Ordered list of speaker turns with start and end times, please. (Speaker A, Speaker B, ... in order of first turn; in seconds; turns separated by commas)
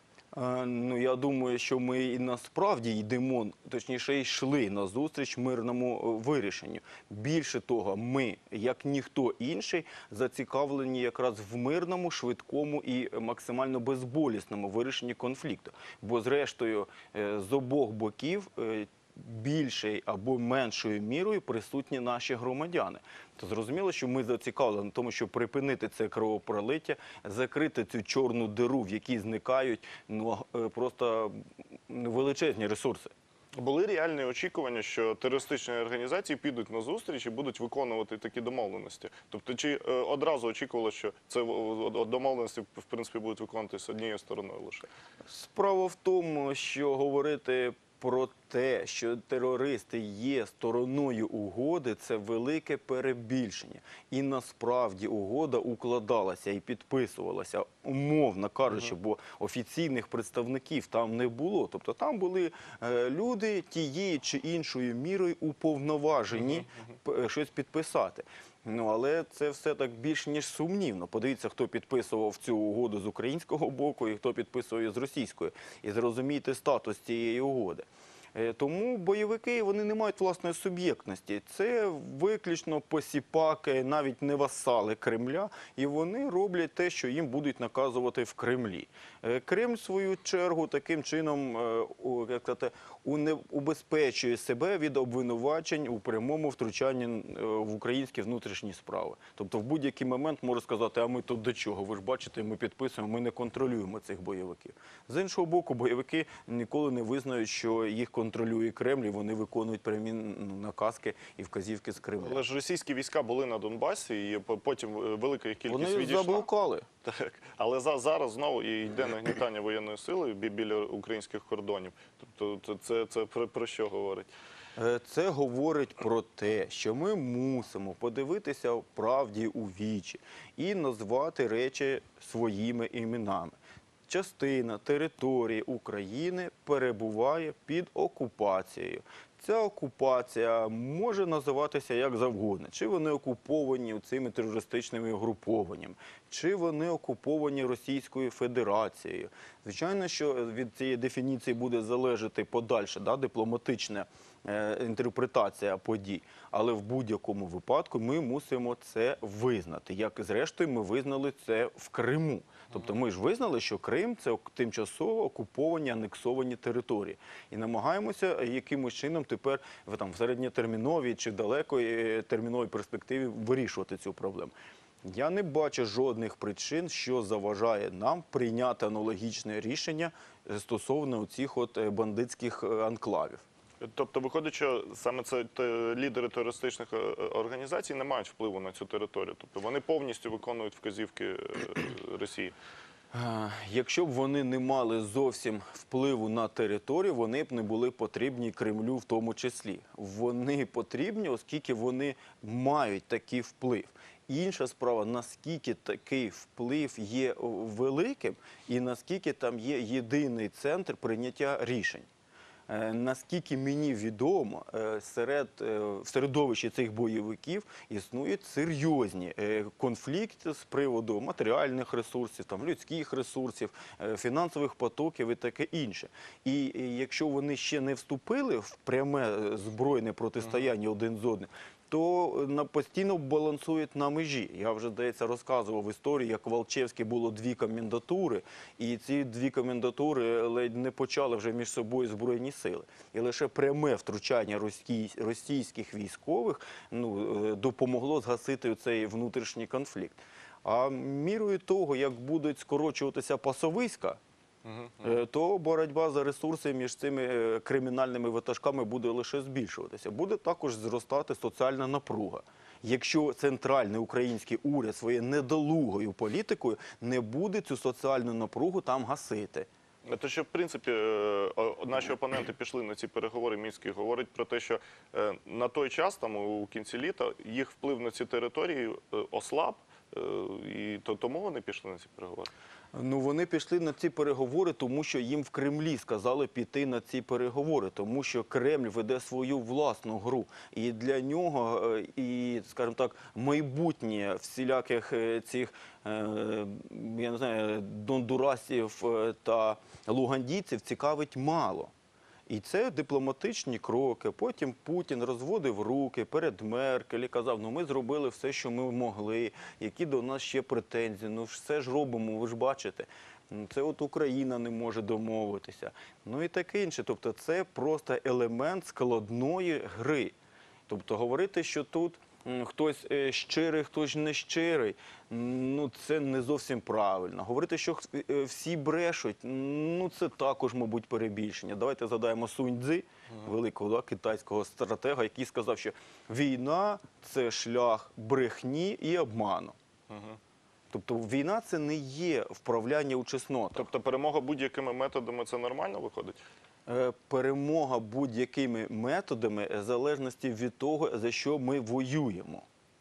Speaker A: 0.3-33.1, Speaker B: 33.5-44.9, Speaker A: 45.3-112.4, Speaker B: 112.2-116.5, Speaker A: 115.7-116.9, Speaker B: 117.0-124.3, Speaker A: 124.8-174.5, Speaker A: 175.0-183.4, Speaker B: 183.8-192.5, Speaker A: 193.1-212.1, Speaker A: 212.7-254.2, Speaker B: 254.7-255.0, Speaker A: 255.0-269.7, Speaker B: 270.1-282.5, Speaker A: 282.9-301.9, Speaker A: 302.5-320.3, Speaker A: 320.9-339.8, Speaker B: 340.1-340.4, Speaker A: 340.9-343.9, Speaker B: 343.8-346.4, Speaker A: 346.9-352.6